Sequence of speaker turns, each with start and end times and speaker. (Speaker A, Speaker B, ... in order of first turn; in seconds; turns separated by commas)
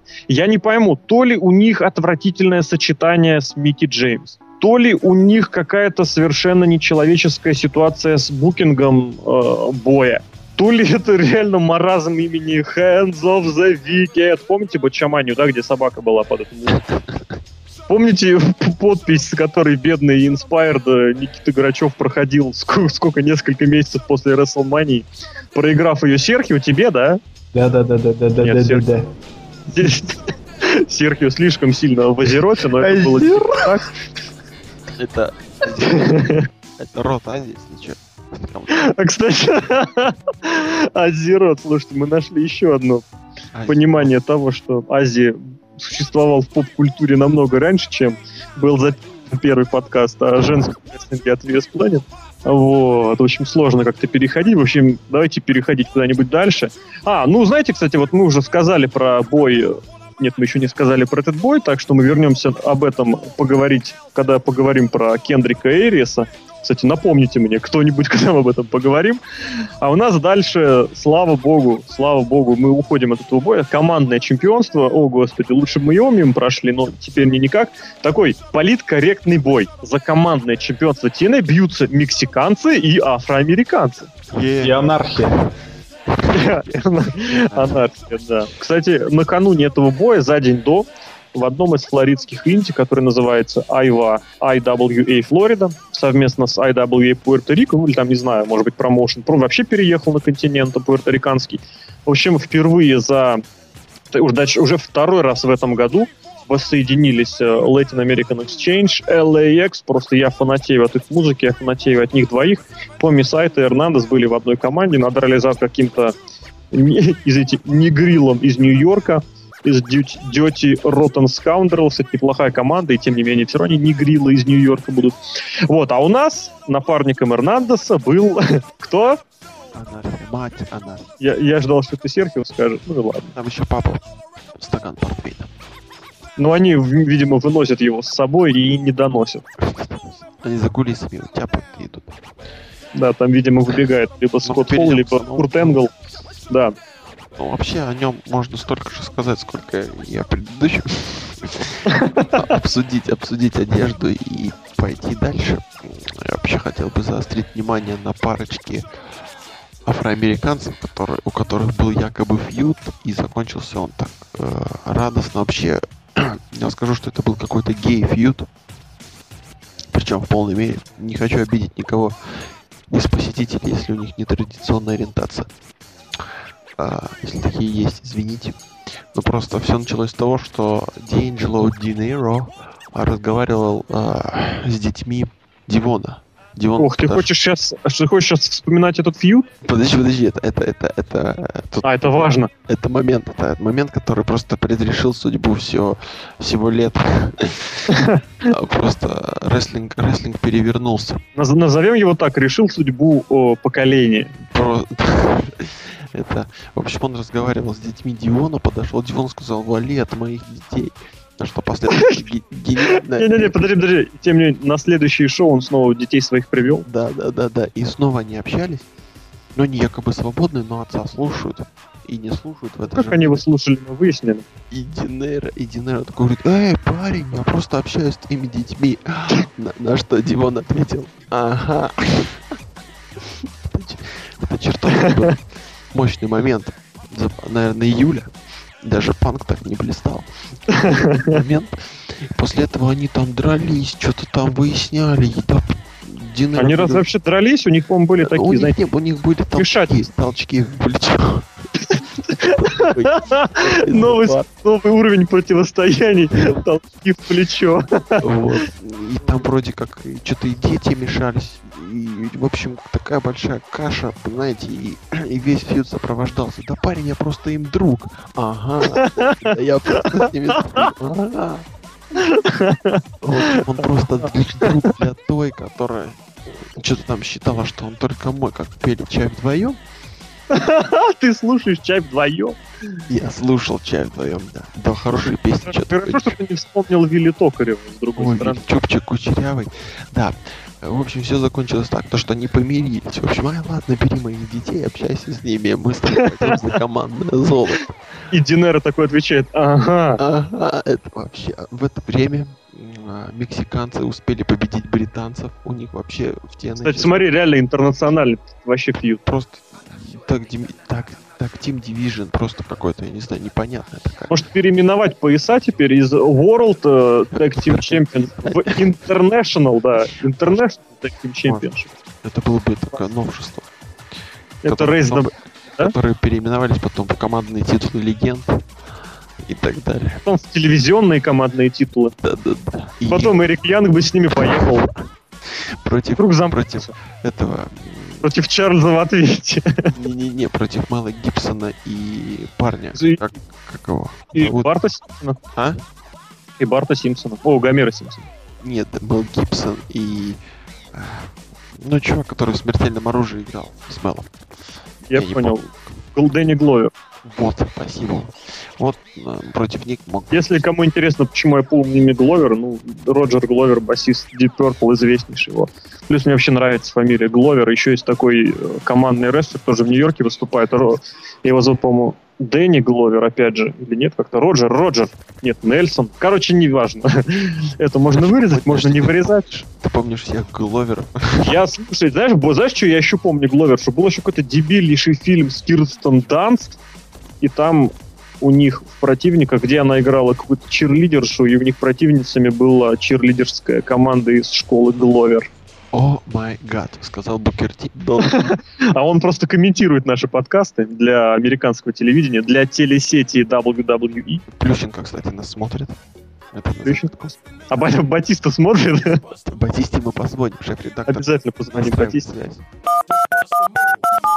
Speaker A: 0.3-16.9, Speaker B: 16.9-17.4, Speaker A: 17.9-27.2, Speaker C: 27.5-29.1, Speaker A: 28.4-28.9, Speaker A: 29.7-33.9, Speaker C: 32.8-33.7, Speaker B: 34.9-38.9, Speaker A: 35.8-36.4, Speaker A: 38.7-43.0, Speaker B: 43.5-44.1, Speaker A: 43.7-84.1, Speaker B: 84.3-84.8, Speaker C: 84.6-85.4, Speaker B: 86.1-87.8, Speaker A: 86.3-103.4, Speaker A: 104.1-116.2, Speaker A: 116.7-129.2, Speaker B: 129.7-131.1, Speaker A: 131.2-133.3, Speaker B: 133.3-135.5, Speaker A: 136.4-139.4, Speaker B: 139.6-142.2, Speaker A: 142.9-145.9, Speaker B: 144.4-145.8, Speaker A: 146.5-146.7, Speaker B: 147.3-158.8, Speaker A: 151.9-152.3, Speaker B: 159.8-168.5, Speaker B: 169.9-175.5, Speaker B: 176.8-178.6, Speaker B: 179.1-187.3, Speaker A: 186.8-189.5, Speaker B: 189.6-197.9, Speaker A: 191.8-192.5, Speaker A: 197.9-198.2, Speaker B: 198.4-201.2, Speaker A: 201.3-204.3, Speaker B: 204.5-213.7, Speaker A: 213.1-216.8, Speaker B: 216.8-218.8, Speaker B: 219.5-223.4, Speaker A: 222.9-224.4, Speaker B: 224.7-232.4, Speaker B: 233.2-238.3, Speaker B: 238.8-247.0, Speaker A: 240.7-241.4, Speaker A: 246.6-248.7, Speaker B: 248.2-251.5, Speaker A: 249.6-249.9, Speaker A: 251.8-258.6, Speaker B: 252.6-254.4, Speaker B: 258.2-271.7, Speaker A: 268.9-270.9, Speaker A: 272.2-274.7, Speaker B: 273.2-279.8, Speaker A: 280.5-282.6, Speaker B: 283.1-286.3, Speaker A: 285.1-288.6, Speaker B: 288.2-298.1, Speaker A: 296.2-296.6, Speaker A: 298.3-300.2, Speaker B: 300.2-307.3, Speaker A: 306.8-309.2, Speaker B: 309.2-314.4, Speaker A: 314.3-321.9, Speaker B: 317.3-318.8, Speaker B: 322.2-323.7, Speaker A: 324.6-325.9, Speaker B: 324.6-328.6, Speaker B: 329.4-330.2, Speaker A: 330.2-332.1, Speaker B: 332.2-333.4, Speaker A: 333.1-334.9, Speaker B: 334.3-334.9, Speaker B: 335.4-338.3, Speaker A: 336.2-336.9, Speaker A: 338.2-339.9, Speaker B: 339.9-344.7, Speaker A: 342.9-343.2, Speaker A: 344.3-345.4, Speaker B: 345.5-345.8, Speaker A: 346.6-348.3, Speaker B: 348.6-350.4, Speaker B: 350.9-354.3, Speaker A: 355.1-356.9, Speaker B: 355.1-355.8, Speaker B: 357.2-360.5, Speaker A: 360.3-379.4, Speaker B: 378.1-381.6, Speaker A: 381.4-386.8, Speaker A: 387.4-395.5, Speaker B: 395.9-398.5, Speaker A: 398.2-404.4, Speaker B: 404.5-406.0, Speaker B: 406.5-407.4, Speaker A: 407.7-409.2, Speaker B: 409.3-412.6, Speaker A: 411.1-412.3